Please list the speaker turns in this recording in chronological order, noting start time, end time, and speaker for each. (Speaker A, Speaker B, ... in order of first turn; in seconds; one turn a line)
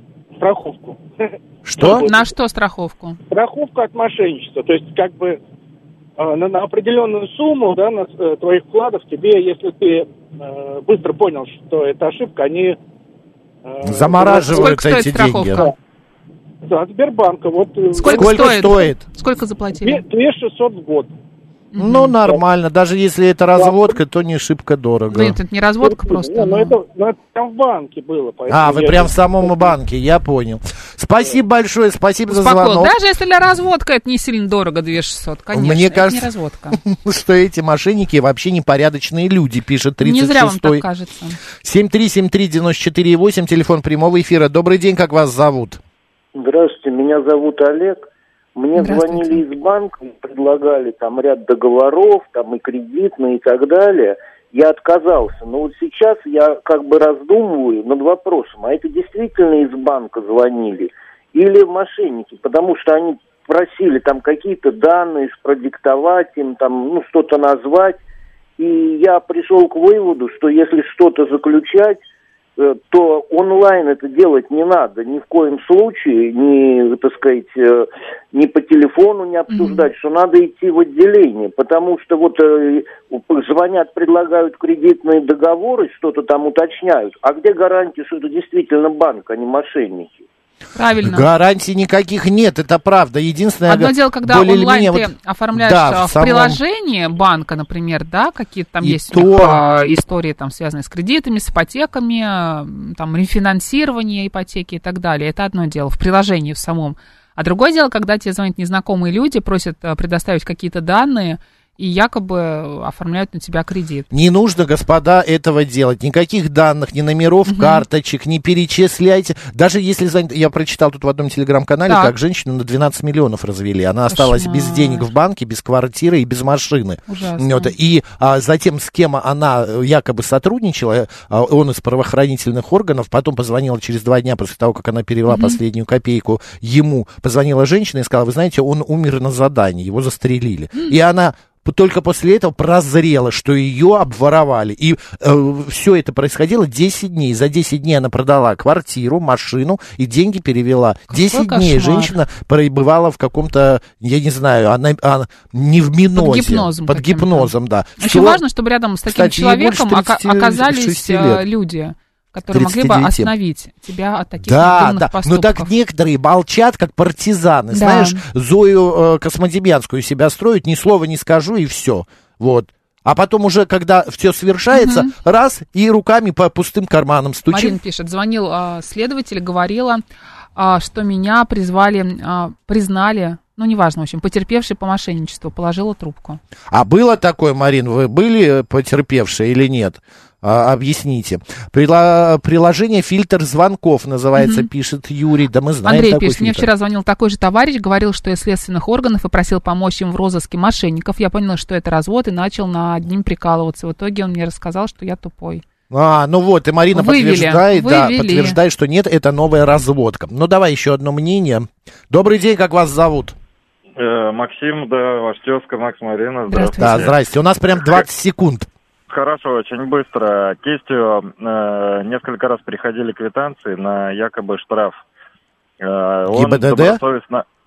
Speaker A: 0.4-2.2
Speaker B: 1.6-2.0
Speaker C: 1.8-3.2
Speaker A: 3.3-5.4
Speaker A: 6.2-12.8
Speaker A: 13.7-14.7
Speaker B: 13.8-15.7
Speaker C: 14.2-15.7
Speaker A: 16.6-18.6
Speaker C: 17.9-20.0
Speaker B: 18.1-19.0
Speaker A: 19.8-21.1
Speaker C: 21.7-22.2
Speaker B: 21.8-25.4
Speaker A: 23.6-23.9
Speaker C: 25.1-26.7
Speaker A: 25.8-29.7
Speaker B: 28.5-32.9
Speaker C: 32.3-36.8
Speaker B: 35.5-40.8
Speaker C: 40.0-41.4
Speaker B: 41.6-45.8
Speaker D: 46.3-48.0
Speaker D: 48.5-68.0
Speaker C: 48.8-49.4
Speaker D: 68.6-72.0
Speaker D: 72.6-90.2
Speaker C: 79.5-79.9
Speaker C: 90.7-91.3
Speaker B: 91.0-96.6
Speaker C: 93.7-114.1
Speaker B: 98.8-99.6
Speaker B: 114.1-158.4
Speaker C: 117.5-117.8
Speaker C: 121.9-122.1
Speaker C: 124.1-125.1
Speaker C: 127.1-127.7
Speaker C: 135.3-135.6
Speaker C: 151.1-152.2
Speaker C: 156.2-165.7
Speaker B: 159.1-161.4
Speaker B: 162.5-163.3
Speaker B: 164.4-177.8
Speaker C: 167.7-168.2
Speaker C: 174.7-175.1
Speaker C: 177.5-180.0
Speaker C: 180.6-186.4
Speaker B: 186.7-196.7
Speaker C: 194.3-194.7
Speaker C: 195.8-205.6
Speaker B: 205.9-213.3
Speaker C: 206.9-208.6
Speaker E: 214.0-217.1
Speaker C: 216.5-217.1
Speaker B: 216.8-218.7
Speaker E: 219.1-225.0
Speaker E: 225.8-227.4
Speaker B: 226.3-227.0